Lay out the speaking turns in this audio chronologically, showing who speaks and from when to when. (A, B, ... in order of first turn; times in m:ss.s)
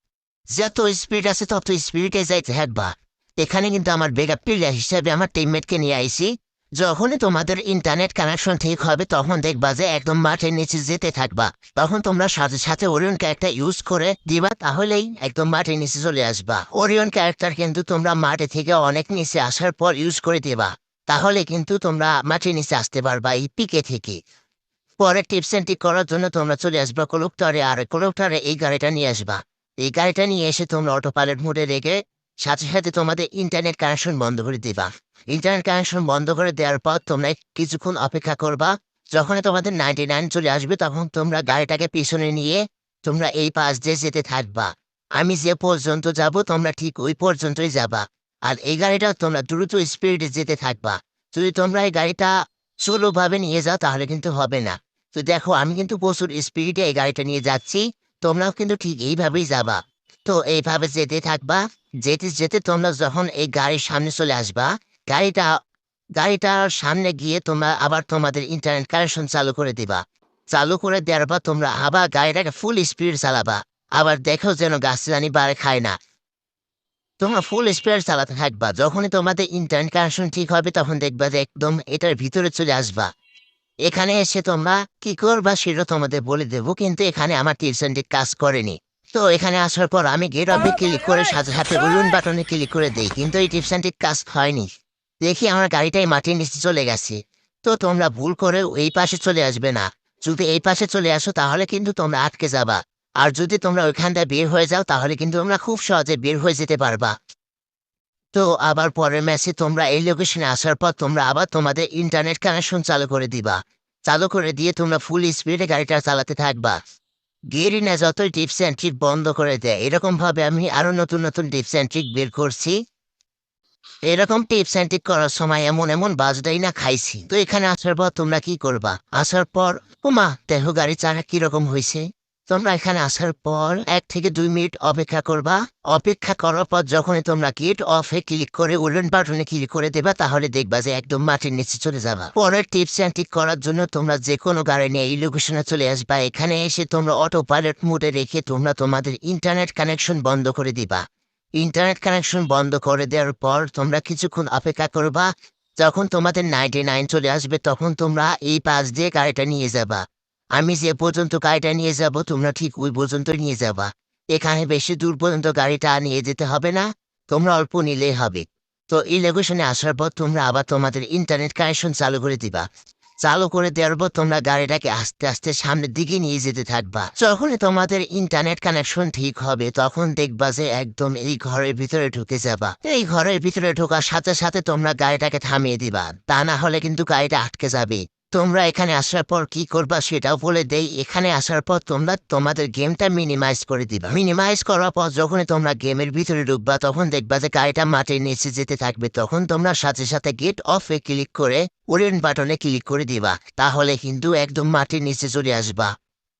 0:00.5-0:24.2 A
0:25.0-0:52.3 A
0:52.8-1:05.5 A
1:06.2-1:16.0 A
1:17.2-1:23.1 A
1:23.8-1:34.7 A
1:35.2-1:47.1 A
1:48.3-1:56.8 A
1:57.5-2:02.8 A
2:04.1-2:31.0 A
2:31.6-2:40.0 A
2:40.6-2:52.7 A
2:53.2-3:25.9 A